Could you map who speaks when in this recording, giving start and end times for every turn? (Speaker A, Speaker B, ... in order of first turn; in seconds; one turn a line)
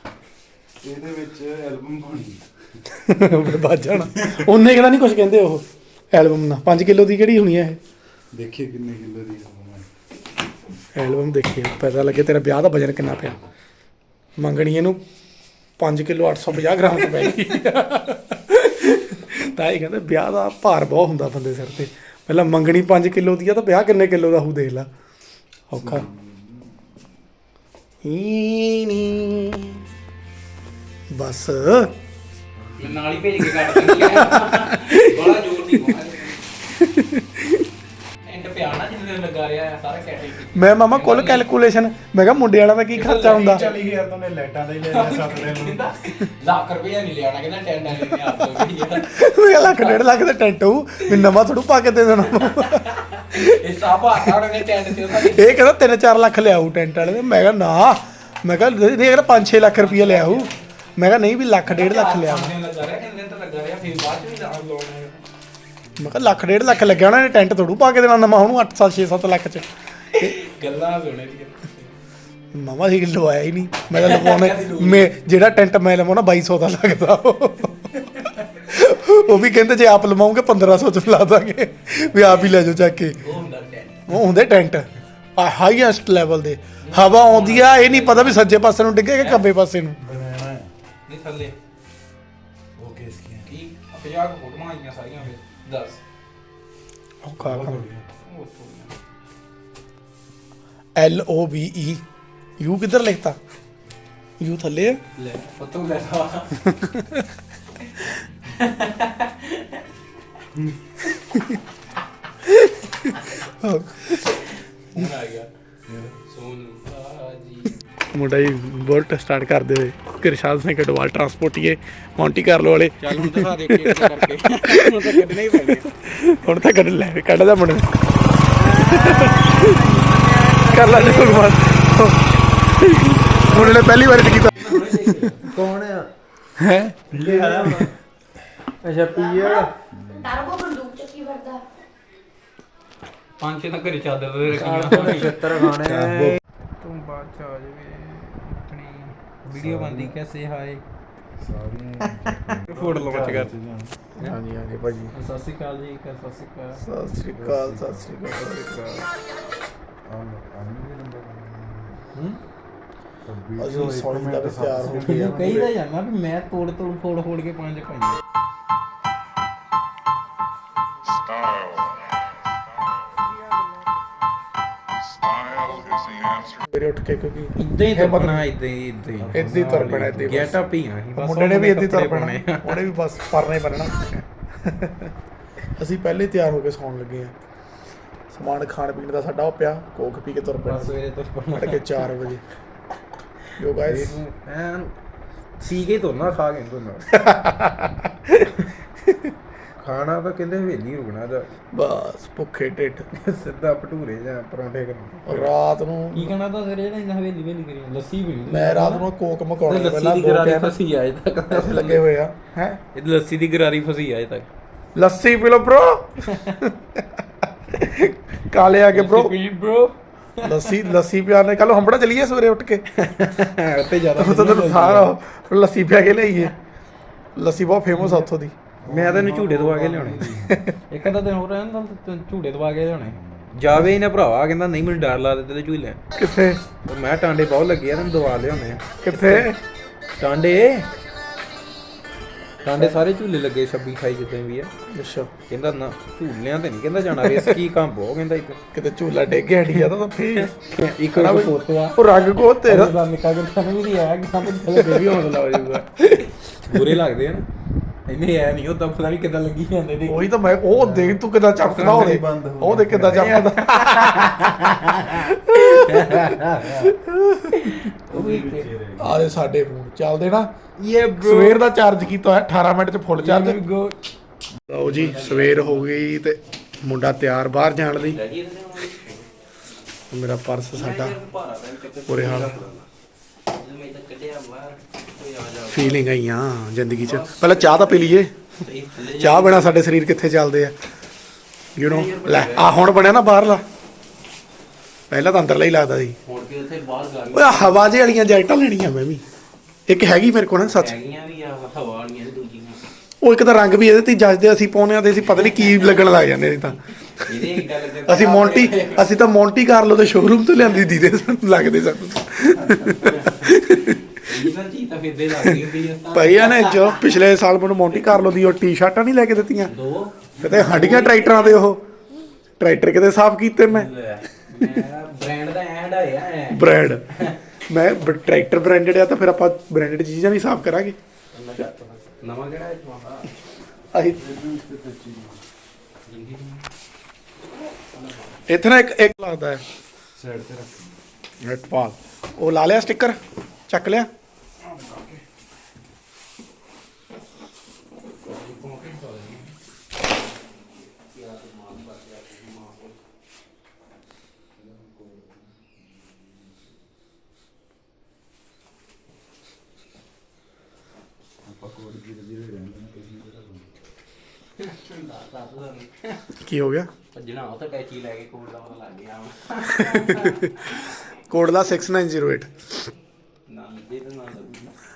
Speaker A: 0.8-2.8
Speaker B: 2.9-7.8
Speaker A: 4.1-4.4
Speaker A: 8.3-9.9
Speaker B: 10.9-13.4
Speaker B: 14.4-15.0
Speaker B: 15.8-24.9
Speaker B: 25.7-26.1
Speaker A: 25.8-26.8
Speaker B: 28.0-29.8
Speaker B: 31.1-31.9
Speaker A: 32.6-33.1
Speaker C: 32.8-36.4
Speaker B: 33.4-35.9
Speaker B: 36.8-37.6
Speaker C: 38.2-41.5
Speaker B: 40.5-43.7
Speaker C: 42.9-43.8
Speaker A: 43.2-45.9
Speaker C: 44.9-50.0
Speaker B: 47.9-53.5
Speaker C: 52.3-55.5
Speaker B: 54.1-62.5
Speaker C: 59.7-60.5
Speaker C: 61.7-65.2
Speaker B: 66.0-70.3
Speaker C: 70.1-71.9
Speaker B: 72.5-83.2
Speaker C: 73.9-75.3
Speaker C: 78.2-78.5
Speaker C: 82.2-82.6
Speaker C: 83.2-84.1
Speaker B: 84.1-90.0
Speaker C: 86.8-88.4
Speaker C: 89.1-89.4
Speaker A: 90.0-90.7
Speaker C: 91.0-91.5
Speaker A: 92.8-93.5
Speaker C: 93.4-96.0
Speaker B: 97.2-97.8
Speaker A: 97.4-98.1
Speaker C: 98.2-98.9
Speaker B: 101.0-102.0
Speaker B: 102.6-103.4
Speaker B: 104.4-105.0
Speaker C: 105.2-106.6
Speaker B: 106.6-107.3
Speaker C: 108.4-109.8
Speaker A: 110.5-110.8
Speaker B: 111.0-111.6
Speaker B: 112.4-114.4
Speaker C: 114.5-115.5
Speaker A: 115.9-116.2
Speaker C: 116.2-117.8
Speaker B: 118.1-127.9
Speaker C: 123.0-126.1
Speaker C: 128.5-131.8
Speaker B: 128.6-130.0
Speaker B: 130.6-135.3
Speaker C: 133.2-136.0
Speaker B: 136.6-136.9
Speaker A: 137.1-137.8
Speaker C: 137.1-137.9
Speaker B: 137.5-137.9
Speaker C: 138.8-139.7
Speaker D: 139.2-139.7
Speaker A: 139.9-140.4
Speaker D: 140.3-141.6
Speaker C: 143.4-150.8
Speaker D: 145.0-146.1
Speaker A: 145.1-146.4
Speaker A: 149.6-150.2
Speaker A: 151.4-154.0
Speaker C: 152.3-153.5
Speaker B: 154.2-155.1
Speaker C: 155.1-156.8
Speaker B: 156.8-158.8
Speaker A: 157.3-158.1
Speaker C: 158.3-159.1
Speaker A: 160.0-162.0
Speaker C: 162.1-162.4
Speaker A: 163.2-165.7
Speaker B: 163.6-165.5
Speaker C: 164.9-168.2
Speaker B: 176.4-178.4
Speaker C: 177.6-182.9
Speaker A: 179.2-180.5
Speaker B: 179.3-180.6
Speaker B: 181.2-185.1
Speaker B: 185.8-187.3
Speaker B: 188.3-190.9
Speaker C: 190.6-192.0
Speaker B: 191.5-192.4
Speaker B: 193.6-194.2
Speaker C: 193.7-194.9
Speaker C: 195.6-197.2
Speaker B: 197.1-198.5
Speaker C: 199.8-201.5
Speaker B: 201.7-203.1
Speaker C: 203.1-205.5
Speaker B: 205.2-206.3
Speaker C: 206.1-209.1
Speaker B: 208.5-210.7
Speaker C: 209.7-212.0
Speaker B: 211.5-212.8
Speaker C: 212.9-214.5
Speaker B: 214.9-219.3
Speaker C: 216.3-216.6
Speaker C: 218.9-220.9
Speaker B: 220.4-222.8
Speaker C: 222.9-225.1
Speaker B: 224.2-226.5
Speaker B: 227.3-228.5
Speaker C: 227.9-228.3
Speaker A: 228.8-230.6
Speaker C: 228.9-230.4
Speaker B: 230.5-230.8
Speaker C: 230.9-236.0
Speaker A: 233.2-233.5
Speaker B: 236.1-236.6
Speaker C: 236.8-239.5
Speaker B: 239.0-239.6
Speaker C: 240.2-240.9
Speaker C: 242.6-244.7
Speaker B: 244.9-245.3
Speaker C: 245.5-248.6
Speaker B: 247.2-247.5
Speaker B: 248.7-250.5
Speaker C: 249.7-257.4
Speaker B: 251.1-253.0
Speaker B: 254.4-255.2
Speaker B: 256.1-257.0
Speaker C: 258.1-260.3
Speaker B: 260.1-264.4
Speaker A: 260.7-263.3
Speaker C: 261.8-262.1
Speaker C: 263.1-266.9
Speaker B: 265.0-267.8
Speaker C: 267.5-268.7
Speaker A: 268.1-269.2
Speaker B: 269.0-270.5
Speaker C: 270.8-271.6
Speaker B: 271.2-273.6
Speaker C: 273.2-273.9
Speaker B: 274.7-278.2
Speaker C: 274.8-276.1
Speaker C: 278.0-279.3
Speaker B: 280.1-281.1
Speaker C: 280.7-282.9
Speaker B: 282.1-282.6
Speaker C: 283.5-286.1
Speaker B: 285.7-288.3
Speaker C: 287.0-289.9
Speaker B: 289.1-290.7
Speaker B: 291.8-293.6
Speaker C: 291.8-292.8
Speaker B: 295.1-296.2
Speaker C: 296.2-297.9
Speaker B: 297.3-299.2
Speaker B: 299.9-300.9
Speaker C: 300.6-302.9
Speaker B: 303.2-314.0
Speaker C: 305.4-306.0
Speaker C: 307.2-309.1
Speaker C: 312.9-317.0
Speaker B: 316.1-319.7
Speaker C: 319.6-321.6
Speaker B: 320.4-321.8
Speaker B: 322.6-323.9
Speaker C: 323.7-327.4
Speaker B: 326.5-327.0
Speaker B: 327.7-331.0
Speaker C: 331.3-333.3
Speaker B: 333.9-334.2
Speaker A: 334.1-335.4
Speaker C: 336.1-336.6
Speaker C: 337.9-338.4
Speaker B: 338.5-339.6
Speaker A: 340.1-340.9
Speaker B: 341.4-344.1
Speaker A: 344.7-345.2
Speaker C: 348.3-349.5
Speaker C: 350.6-352.9
Speaker A: 354.6-355.7
Speaker A: 361.4-363.7
Speaker C: 364.6-366.2
Speaker B: 366.4-366.9
Speaker C: 367.1-370.9
Speaker B: 369.8-372.7
Speaker C: 373.5-374.7